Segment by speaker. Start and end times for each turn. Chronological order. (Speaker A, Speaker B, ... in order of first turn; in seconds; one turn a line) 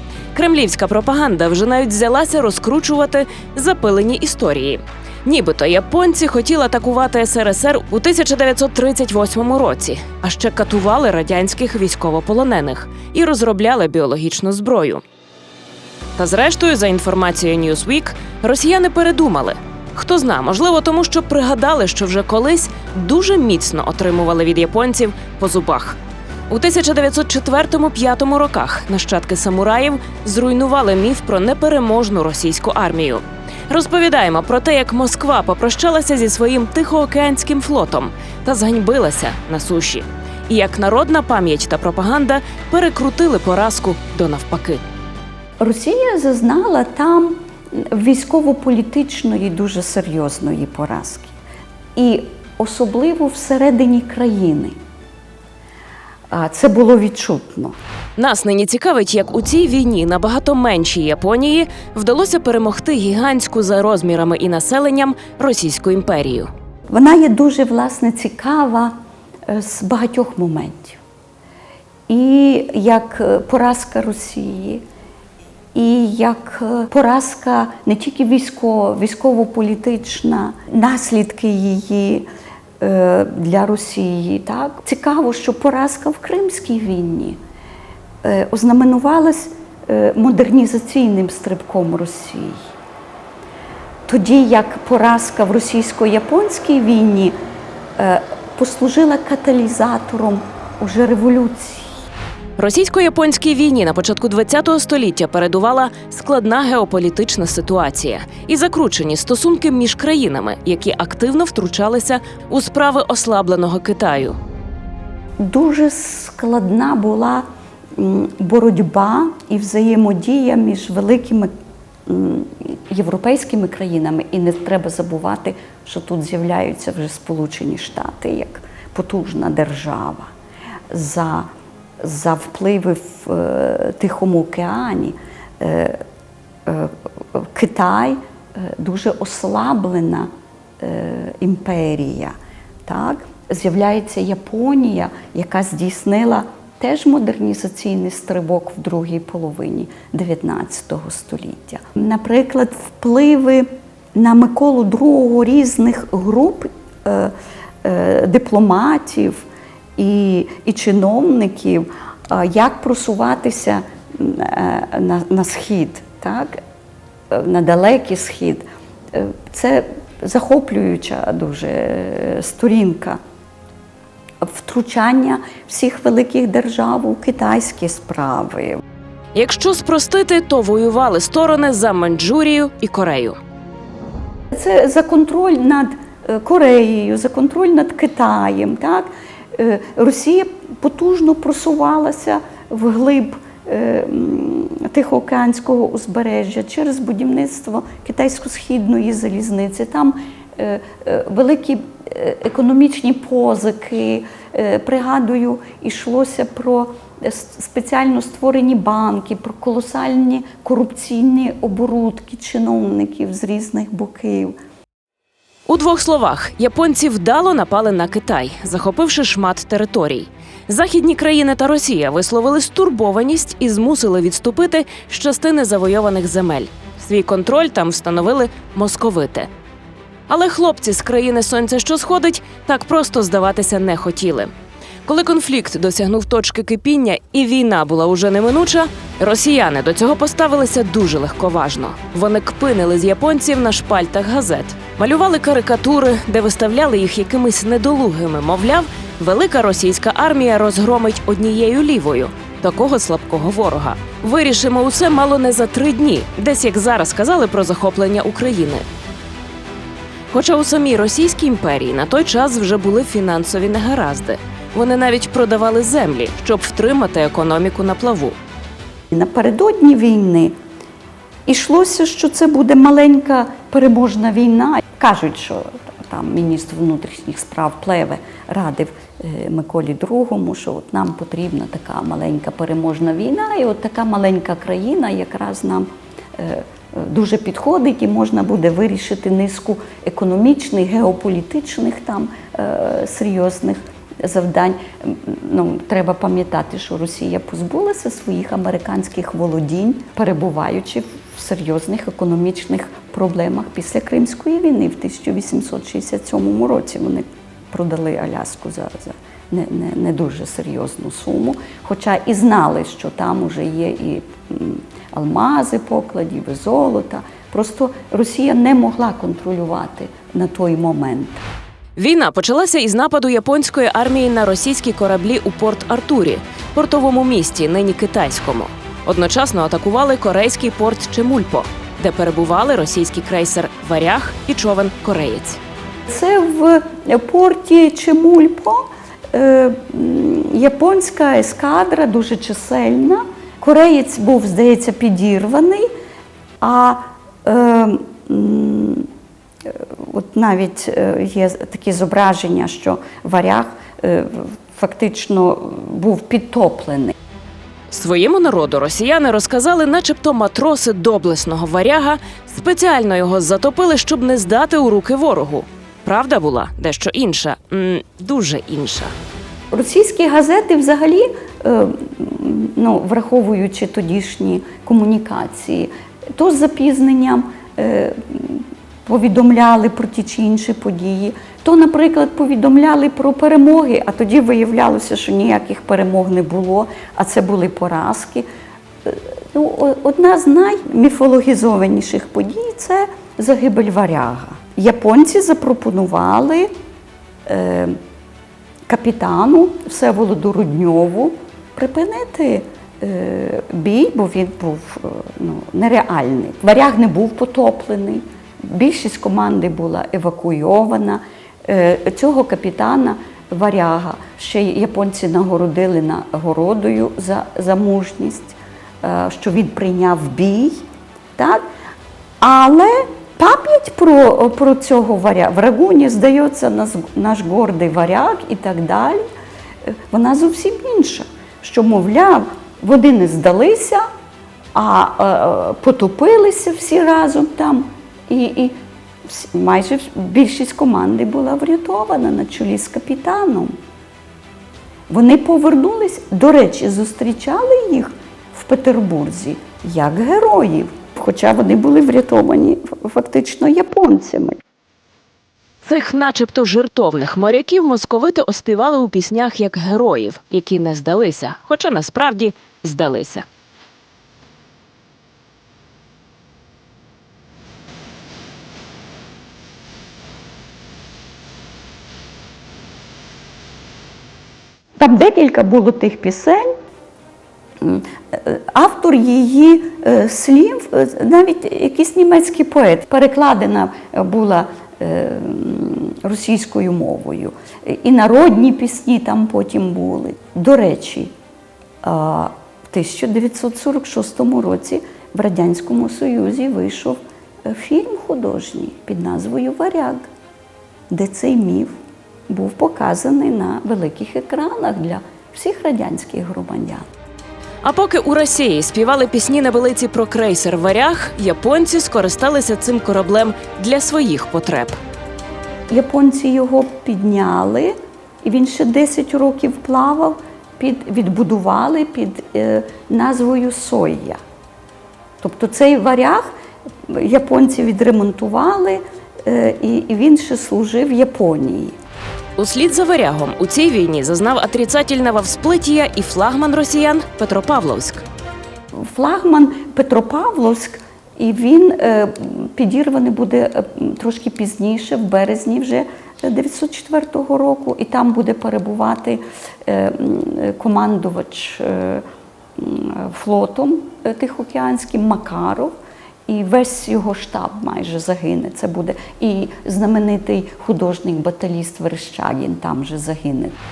Speaker A: 0.3-15.0
Speaker A: 16.2-44.8
Speaker B: 45.6-51.3
Speaker B: 52.0-54.8
Speaker B: 56.3-57.8
Speaker A: 58.2-66.5
Speaker B: 66.9-68.9
Speaker B: 69.5-71.0
Speaker B: 72.1-74.8
Speaker B: 75.7-82.3
Speaker B: 82.8-87.4
Speaker B: 88.2-92.7
Speaker B: 94.1-97.4
Speaker B: 98.0-102.0
Speaker A: 102.6-114.4
Speaker B: 115.4-121.5
Speaker B: 122.1-130.3
Speaker B: 130.9-131.5
Speaker B: 132.0-136.0
Speaker B: 136.7-142.3
Speaker B: 142.8-159.5
Speaker B: 160.0-166.6
Speaker B: 167.3-173.2
Speaker B: 174.4-178.8
Speaker A: 179.3-183.4
Speaker B: 184.5-214.6
Speaker A: 215.7-229.5
Speaker A: 230.3-234.5
Speaker A: 235.1-258.8
Speaker A: 260.3-268.4
Speaker B: 269.1-270.5
Speaker B: 271.5-321.4
Speaker A: 322.0-335.6
Speaker B: 336.1-345.9
Speaker B: 346.6-349.1
Speaker B: 349.6-357.1
Speaker A: 357.9-369.1
Speaker B: 369.7-388.5
Speaker B: 389.0-396.7
Speaker B: 397.5-398.0
Speaker B: 398.9-420.9
Speaker B: 421.4-421.6
Speaker B: 422.4-429.2
Speaker B: 429.9-434.1
Speaker B: 434.7-443.7
Speaker B: 445.1-454.6
Speaker A: 455.8-463.5
Speaker B: 475.0-476.7
Speaker B: 477.8-491.3
Speaker B: 492.0-500.3
Speaker B: 501.1-502.0
Speaker B: 502.5-507.1
Speaker A: 507.8-515.0
Speaker B: 515.9-524.4
Speaker B: 525.4-526.5
Speaker B: 527.1-532.0
Speaker A: 532.6-538.2
Speaker B: 538.9-552.2
Speaker B: 552.8-556.0
Speaker B: 556.5-563.8